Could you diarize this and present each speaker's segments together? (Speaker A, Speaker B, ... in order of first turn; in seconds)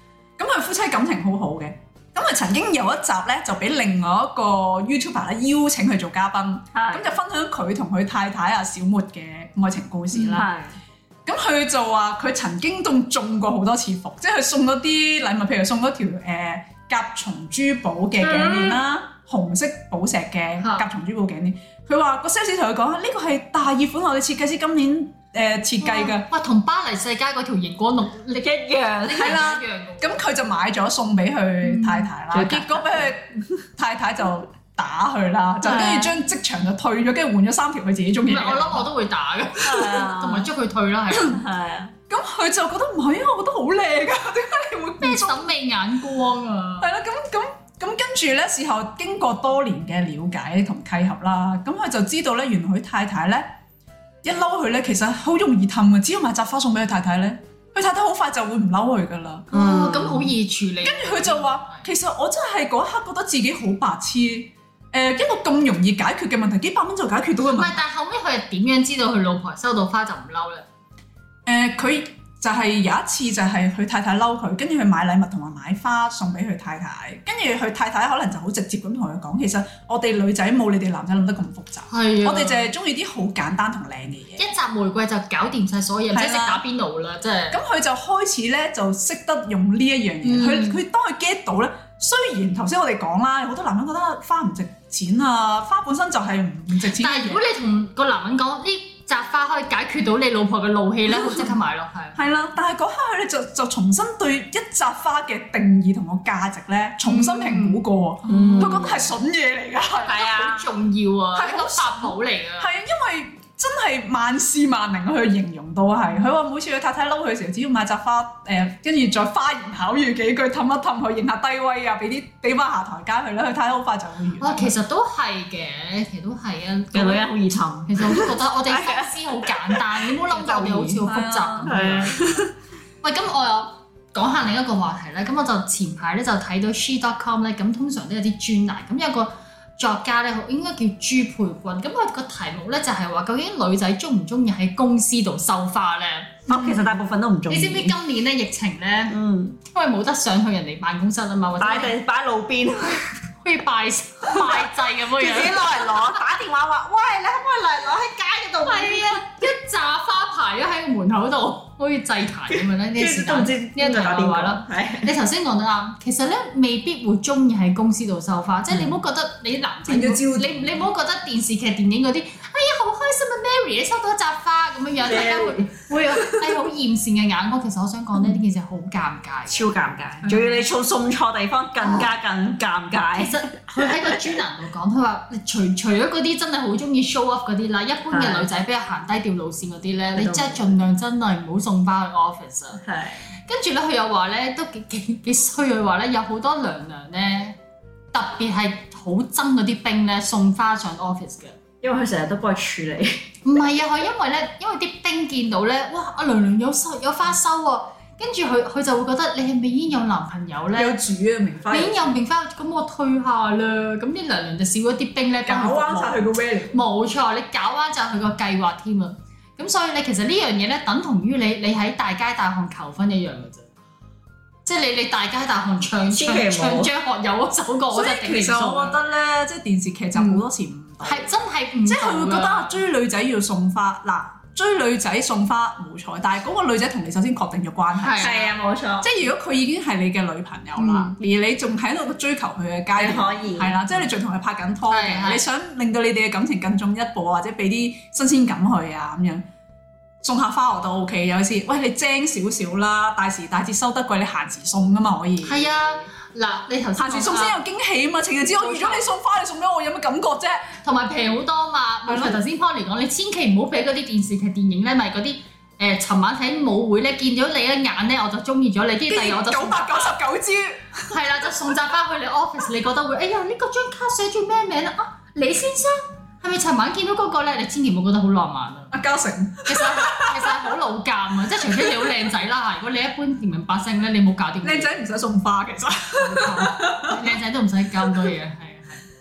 Speaker A: 0.4-10.5, 11.3-26.3, 29.2-38.9, 42.1-45.5, 46.8-53.5, 54.2-59.5, 60.8-67.8, 71.5-84.4, 86.1-86.6, 87.5-97.4, 101.1-101.5, 102.2-110.3, 111.3-124.7, 131.0-132.2, 169.9-170.9, 180.2-180.6, 210.8-212.2, 215.4-216.8, 227.9-231.3, 231.9-238.3, 239.0-249.4, 250.2-255.7, 257.0-260.8, 262.1-262.4, 269.1-271.2, 278.9-280.7, 281.6-282.1, 284.6-287.3
Speaker B: 6.7-7.1, 10.3-10.7, 18.2-18.8, 28.4-29.4, 32.3-33.1, 35.6-36.1, 39.6-40.5, 41.3-41.9, 59.5-60.3, 108.3-109.1, 110.1-110.7, 126.9-131.0, 131.7-132.5, 146.5-147.9, 149.1-149.6, 151.6-153.1, 154.4-159.2, 162.5-165.1, 175.0-175.7, 179.5-184.3, 188.1-188.5, 190.2-190.7, 192.8-193.3, 201.8-203.3, 226.1-226.9, 238.2-239.1, 243.0-243.8
Speaker C: 10.1-10.4, 20.6-20.9, 25.8-30.1, 31.6-32.1, 38.3-41.4, 45.0-46.9, 59.5-61.9, 67.5-70.7, 81.9-82.7, 84.4-87.6, 90.2-90.8, 96.9-102.2, 107.0-108.9, 110.0-112.7, 124.4-127.3, 127.9-132.2, 133.0-146.8, 147.5-151.9, 153.4-156.0, 158.6-179.7, 181.8-182.1, 183.2-192.8, 193.5-197.6, 198.1-201.6, 203.4-211.0, 211.7-223.7, 224.7-229.0, 230.2-230.4, 231.0-232.8, 238.0-238.5, 240.8-241.2, 244.9-245.4, 255.4-257.6, 258.6-259.1, 260.8-270.2, 271.1-278.9, 279.7-284.9, 286.2-289.1